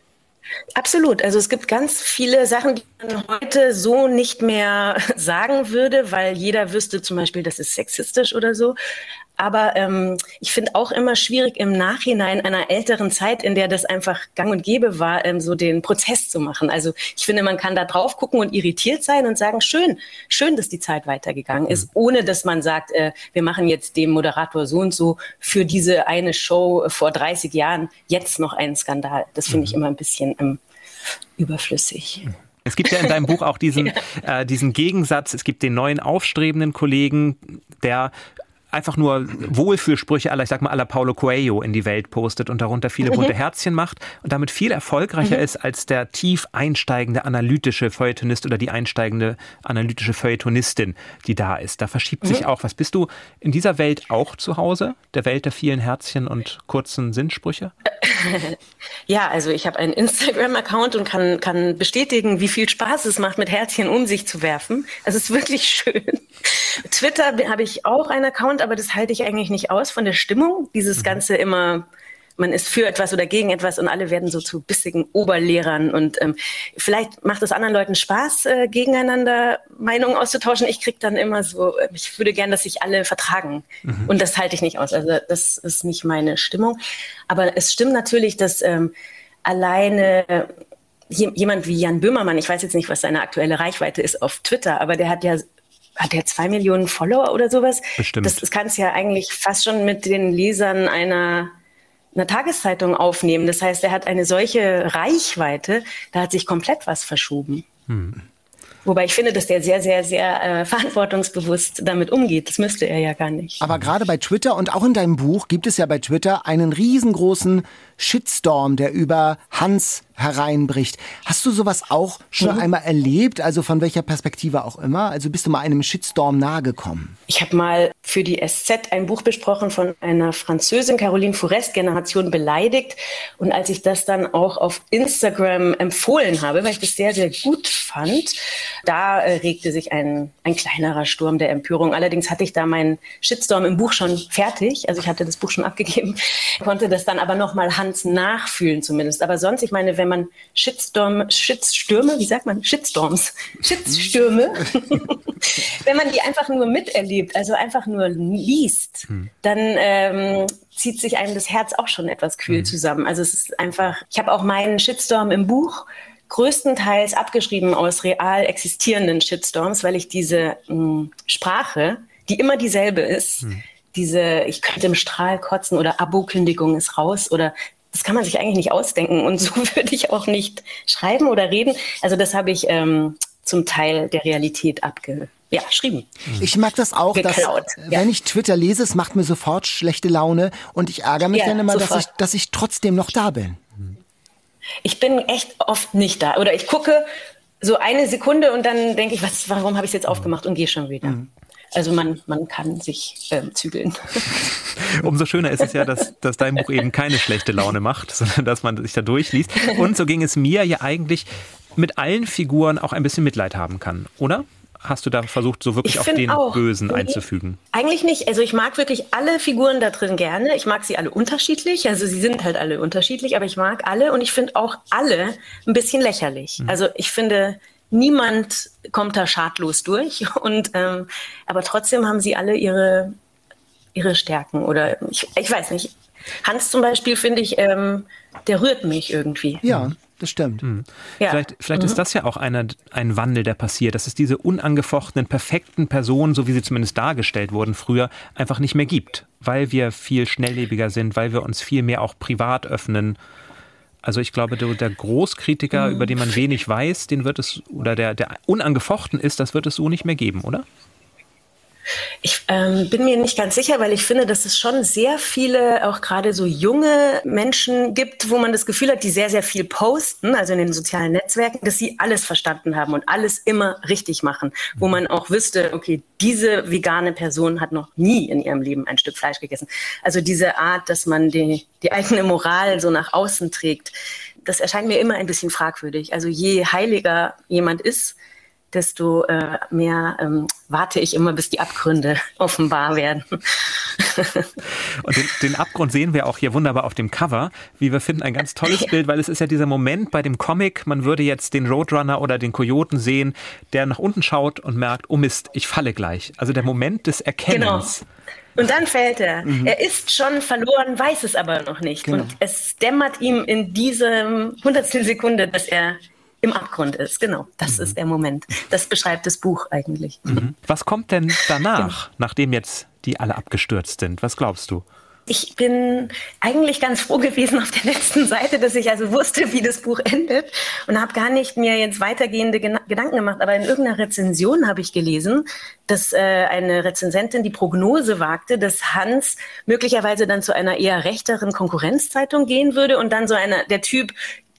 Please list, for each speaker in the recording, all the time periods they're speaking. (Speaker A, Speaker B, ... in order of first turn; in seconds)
Speaker A: 0.7-8.8, 9.4-30.6, 31.4-32.3, 58.0-71.8, 72.4-88.9, 89.4-90.5, 91.1-95.4, 96.0-101.5, 102.1-107.7, 108.8-113.6, 127.3-186.1, 187.1-188.1, 191.3-192.1, 194.8-197.1, 197.6-201.2, 201.7-204.4, 215.8-217.2, 217.7-233.2, 233.9-239.6, 241.2-242.0, 255.8-256.0, 262.2-283.9, 284.4-288.1, 288.7-294.5, 307.5-307.9, 308.6-320.4, 325.3-344.1
Speaker B: 29.5-29.8, 32.6-38.1, 38.7-57.7, 83.8-84.1, 98.0-98.4, 107.9-108.2, 204.7-217.6, 240.6-253.2, 254.0-260.6, 295.0-308.0, 317.7-317.9, 320.3-324.8
Speaker C: 113.6-127.2, 186.4-193.6, 239.6-240.6, 309.4-309.8, 312.0-312.4